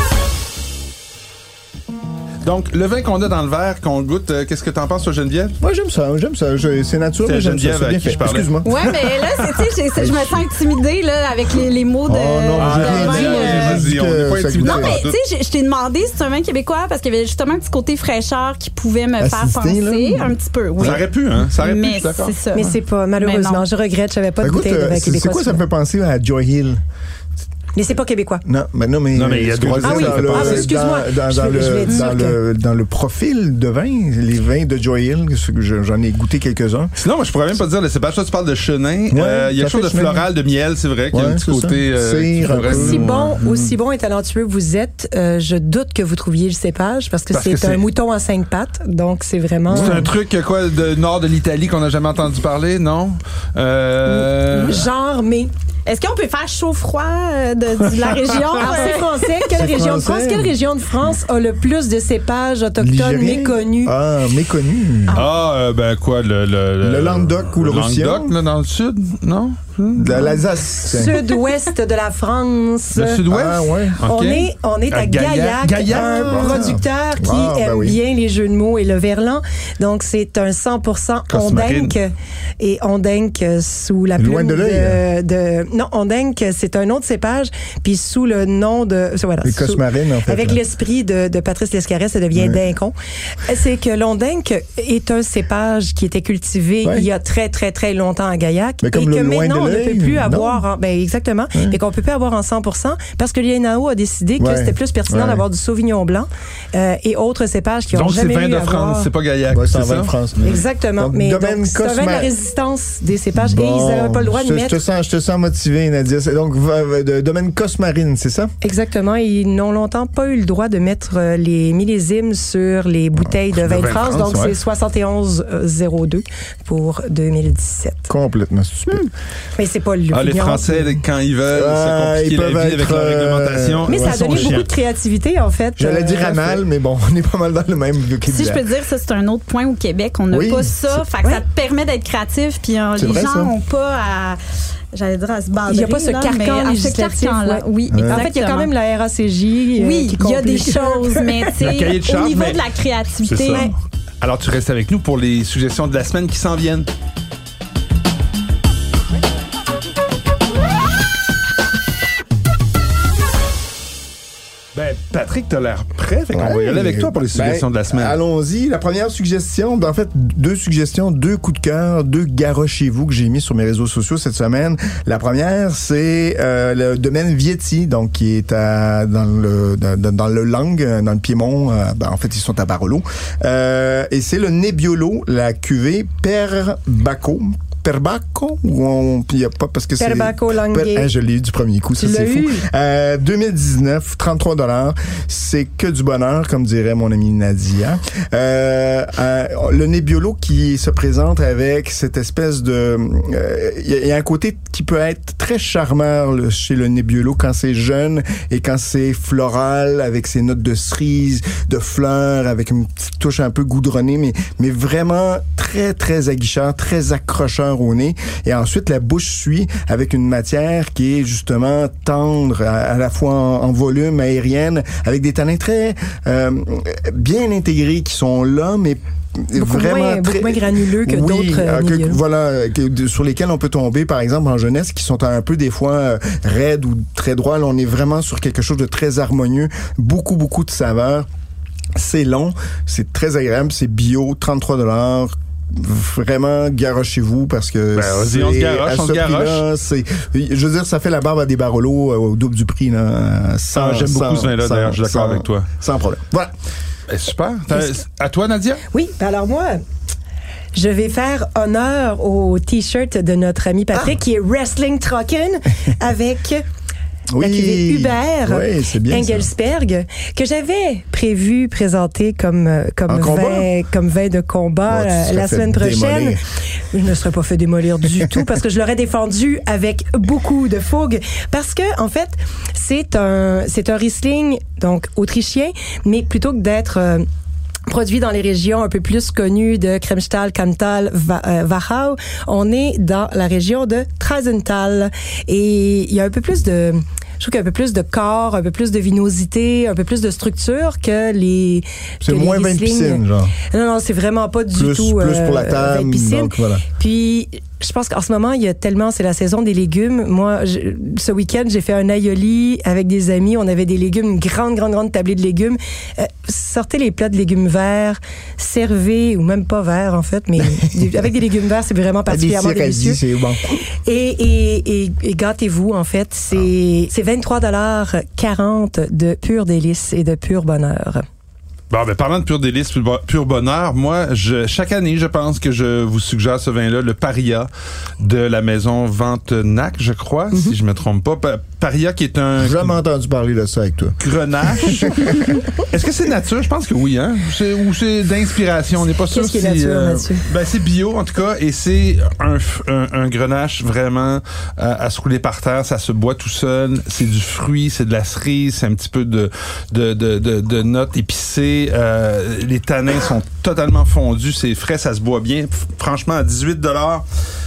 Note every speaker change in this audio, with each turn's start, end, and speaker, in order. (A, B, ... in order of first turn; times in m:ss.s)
0:02.4-0:05.5 A
0:05.6-0:08.8 B
0:07.2-0:08.8 A
0:08.6-0:13.9 C
0:10.0-0:10.4 B
0:12.1-0:15.0 B
0:12.6-0:15.2 A
0:14.6-0:23.6 C
0:19.2-0:21.0 B
0:20.8-0:22.4 A
0:22.5-0:25.6 D
0:24.4-0:26.8 B
0:27.7-0:28.4 D
0:28.4-0:36.9 B
0:29.1-0:30.7 A
0:29.8-0:32.4 D
0:37.0-0:43.4 A
0:39.1-0:40.2 B
0:41.1-0:43.7 B
0:42.6-0:50.1 D
0:47.3-0:47.8 A
0:49.7-0:50.1 B
0:49.7-0:54.8 A
0:54.0-0:55.5 D
0:55.9-0:59.0 C
0:58.0-0:58.5 A
0:58.5-1:03.9 D
0:59.5-1:00.5 B
1:02.8-1:05.2 B
1:05.1-1:10.3 A
1:06.8-1:08.3 B
1:09.9-1:11.2 B
1:10.8-1:13.2 D
1:12.9-1:16.7 A
1:13.3-1:14.0 B
1:14.0-1:32.9 D
1:15.9-1:18.0 B
1:21.3-1:21.9 A
1:24.2-1:25.0 B
1:29.4-1:30.6 B
1:32.3-1:32.6 B
1:33.4-1:49.1 D
1:38.8-1:40.6 B
1:44.4-1:45.4 B
1:47.9-1:50.6 A
1:49.5-1:52.3 B
1:50.4-1:54.8 D
1:53.3-1:58.5 B
1:58.6-2:08.1 D
2:03.2-2:04.5 B
2:03.6-2:04.5 A
2:08.1-2:09.1 B
2:09.6-2:10.9 D
2:10.1-2:14.7 A
2:11.5-2:14.6 B
2:13.9-2:16.6 D
2:15.8-2:18.6 B
2:18.2-2:24.4 C
2:20.3-2:21.0 B
2:23.0-2:23.5 B
2:24.9-2:28.7 C
2:25.6-2:31.5 D
2:27.9-2:28.3 B
2:29.8-2:33.7 C
2:31.6-2:32.6 A
2:33.2-2:36.9 A
2:44.7-2:48.2 A
2:46.3-4:01.3 B
3:10.0-3:11.1 D
3:12.0-3:12.6 D
3:49.6-3:52.2 D
4:01.9-4:16.5 B
4:07.9-4:09.6 A
4:13.7-4:15.7 A
4:17.1-4:18.8 A
4:18.9-4:19.8 D
4:20.7-4:26.6 D
4:27.3-4:29.5 B
4:27.4-4:36.4 D
4:33.1-4:33.7 B
4:34.9-4:36.4 B
4:36.9-4:47.2 D
4:47.9-5:23.2 D
5:02.2-5:03.6 B
5:04.7-5:06.8 B
5:20.6-5:21.1 B
5:22.3-5:23.8 B
5:24.0-5:31.2 D
5:31.9-5:37.7 A
5:38.2-5:42.9 A
5:42.6-5:44.2 B
5:44.2-6:07.2 A
5:44.7-5:45.6 B
5:49.2-5:50.4 D